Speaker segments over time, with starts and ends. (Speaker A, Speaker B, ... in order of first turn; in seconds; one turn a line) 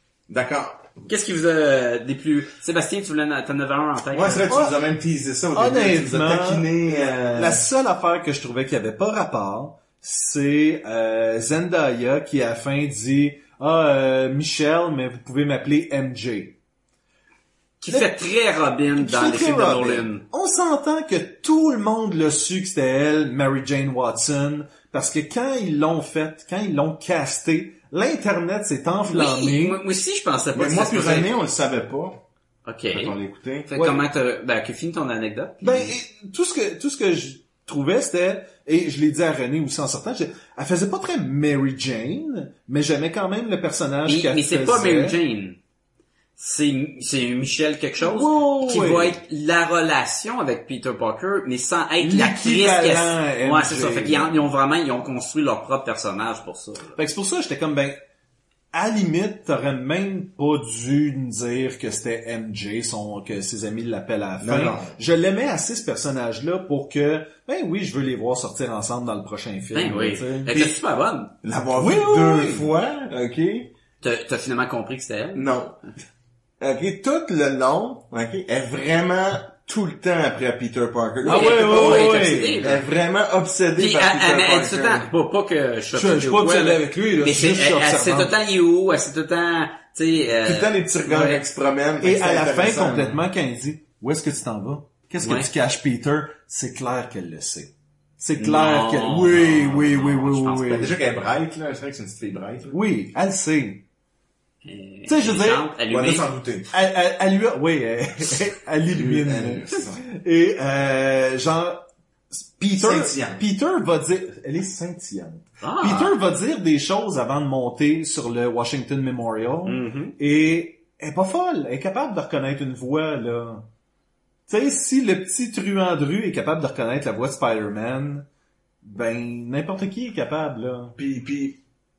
Speaker A: 0.3-0.9
Speaker B: 1.1-4.5
Speaker A: 4.1-7.6
Speaker C: 4.5-4.8
Speaker C: 5.5-16.6
Speaker B: 17.8-20.2
Speaker C: 19.0-29.8
Speaker B: 29.1-31.3
Speaker A: 30.5-32.2
Speaker B: 32.6-33.1
Speaker A: 32.9-33.7
Speaker B: 33.7-35.9
Speaker C: 33.7-34.0
Speaker C: 35.6-45.2
Speaker B: 44.0-45.6
Speaker B: 46.4-57.0
Speaker C: 48.0-49.1
Speaker C: 52.0-54.4
Speaker C: 57.0-58.0
Speaker C: 58.7-70.7
Speaker A: 64.4-65.0
Speaker B: 69.7-71.3
Speaker A: 71.4-73.7
Speaker C: 71.8-72.7
Speaker B: 74.0-75.5
Speaker A: 75.3-75.8
Speaker A: 76.6-82.1
Speaker C: 81.2-82.7
Speaker B: 81.2-82.8
Speaker A: 82.6-85.1
Speaker B: 83.8-91.4
Speaker C: 85.9-88.3
Speaker A: 90.4-93.2
Speaker C: 92.0-100.9
Speaker B: 95.2-95.5
Speaker B: 98.4-100.9
Speaker A: 100.6-102.8
Speaker C: 102.7-103.8
Speaker B: 104.6-106.3
Speaker C: 105.1-105.7
Speaker A: 105.9-106.7
Speaker C: 106.7-123.6
Speaker A: 108.9-110.0
Speaker A: 112.8-113.4
Speaker B: 115.6-116.2
Speaker B: 119.7-120.2
Speaker C: 124.5-128.2
Speaker C: 128.8-130.9
Speaker A: 131.0-131.6